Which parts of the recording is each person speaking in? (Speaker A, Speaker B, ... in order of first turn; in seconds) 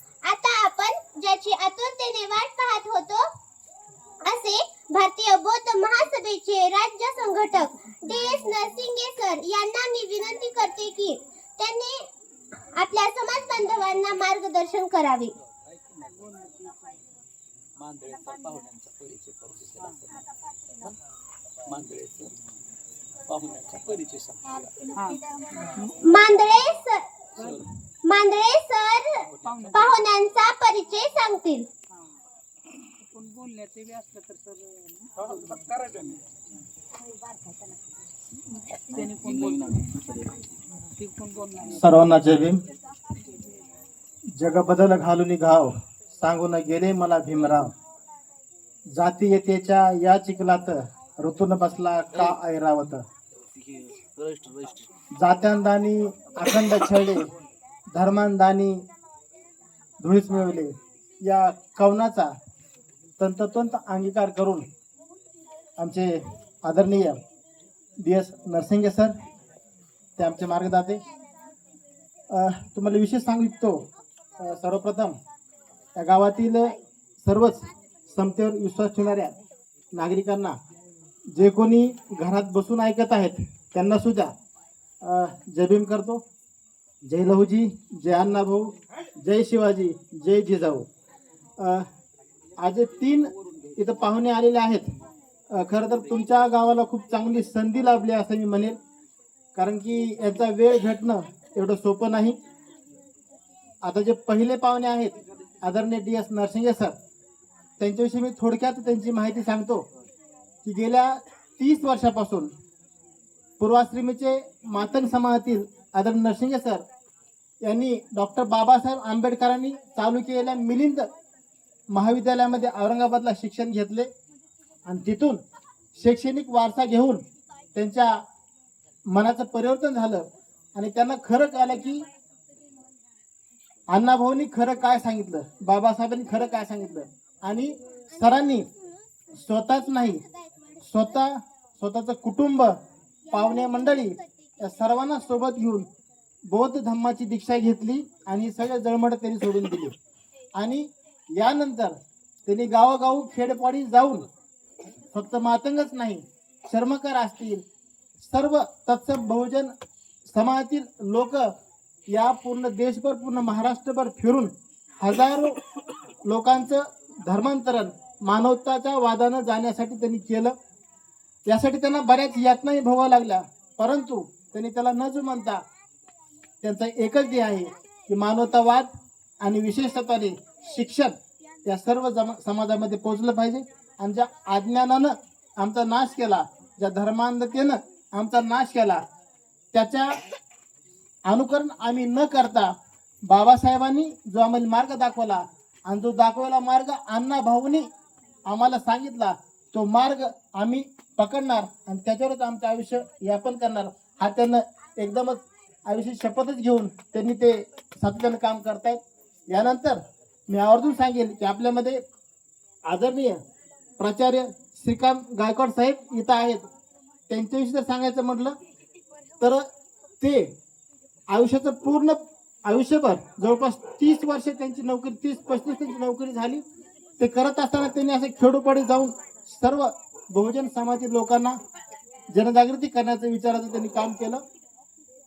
Speaker A: 0.3-3.2, 4.2-12.0, 12.8-15.3, 25.9-29.2, 29.7-31.7
Speaker B: 16.2-16.9, 25.0-25.9, 29.5-29.8, 33.0-36.2, 37.2-37.6, 38.7-39.7, 41.0-41.8
Speaker C: 17.8-20.1, 21.7-22.4, 23.3-24.7, 29.3-29.8, 38.9-40.5, 53.5-54.9
Speaker D: 41.8-42.6, 44.4-47.7, 49.0-53.0, 55.2-57.3, 57.9-58.9, 60.0-62.3, 63.2-64.7, 65.8-67.2, 68.0-69.2, 70.2-71.0, 72.3-73.9, 74.4-75.2, 76.0-79.3, 79.9-80.6, 81.3-84.3, 85.0-86.2, 87.1-90.9, 91.6-91.9, 92.6-94.9, 95.5-98.8, 99.5-102.4, 103.8-107.0, 107.8-109.9, 110.7-112.5, 113.6-116.8, 117.6-121.1, 121.9-124.1, 124.9-125.4, 126.0-127.2, 127.8-128.2, 129.1-132.1, 133.9-138.7, 139.3-140.2, 140.8-142.8, 143.3-145.9, 146.5-149.9, 150.6-154.3, 155.1-157.6, 158.2-159.7, 160.3-161.5, 162.1-165.6, 166.3-170.6, 171.5-175.6, 176.6-178.9, 179.4-181.1, 181.7-189.0, 189.7-190.2, 191.3-192.7, 193.3-197.9, 198.5-212.0, 212.9-213.4, 214.0-216.7, 217.3-218.6, 219.4-219.7, 220.2-220.5, 221.3-226.7, 227.2-231.6, 232.3-234.4